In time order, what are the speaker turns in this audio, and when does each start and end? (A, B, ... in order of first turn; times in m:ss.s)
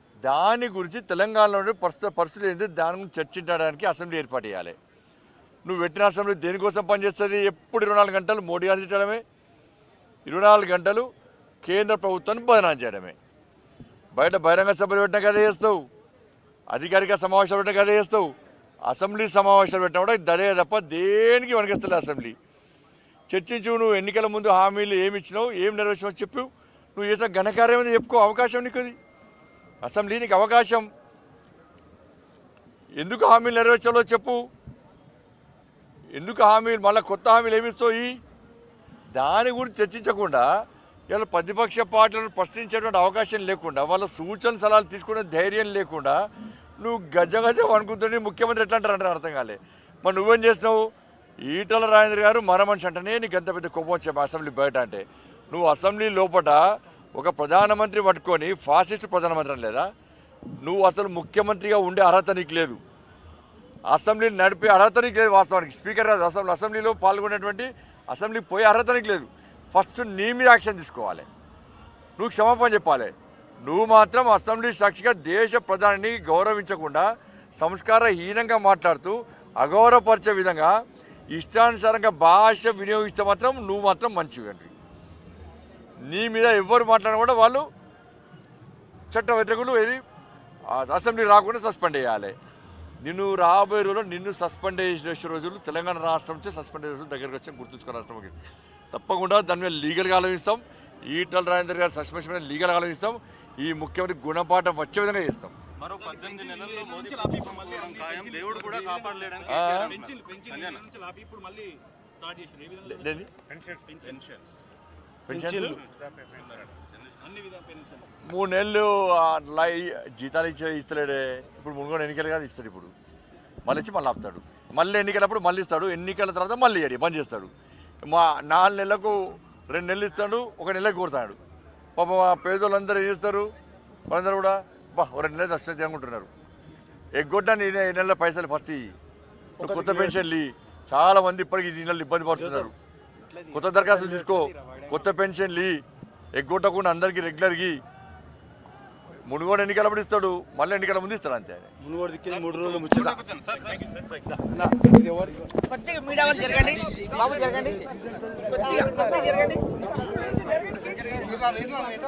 0:00.3-0:04.7 A
0:05.6-0:09.2 A
0:10.3-0:11.1 A
0:11.6-0:13.2 A
0:14.1-0:15.8 A
0:16.7-0:18.3 A
0:18.9-0:22.3 A
0:23.3-0:29.0 A
0:29.8-0:30.8 A
0:33.0-0:34.4 A
0:36.1-0:38.1 A
0:39.2-0:40.5 A
0:41.1-0:46.2 A
0:46.8-0:50.8 A
0:51.4-0:56.6 A
0:57.2-0:59.8 A
1:00.6-1:02.8 A
1:03.9-1:11.3 A
1:12.2-1:13.1 A
1:13.6-1:20.7 A
1:21.3-1:24.7 A
1:26.1-1:27.6 A
1:29.1-1:30.0 A
1:30.7-1:32.3 A
1:33.0-1:38.4 A
1:38.9-1:45.5 A
1:45.8-1:50.8 B
1:46.0-1:54.4 C
1:49.5-1:50.0 A
1:52.9-1:53.3 A
1:55.3-1:55.8 A
1:55.3-1:55.8 D
1:57.2-1:58.0 C
1:58.2-2:02.9 A
2:03.6-2:07.5 A
2:08.0-2:11.4 A
2:12.0-2:13.5 A
2:14.1-2:16.3 A
2:17.2-2:18.9 A
2:19.6-2:22.7 A
2:19.6-2:20.2 D
2:22.4-2:22.7 D
2:23.4-2:24.8 D
2:23.5-2:25.8 A
2:26.4-2:27.8 A
2:29.3-2:31.7 A
2:31.8-2:33.2 D
2:32.3-2:33.8 B
2:34.2-2:35.4 D
2:35.7-2:37.9 E
2:36.5-2:37.0 D
2:38.5-2:39.6 E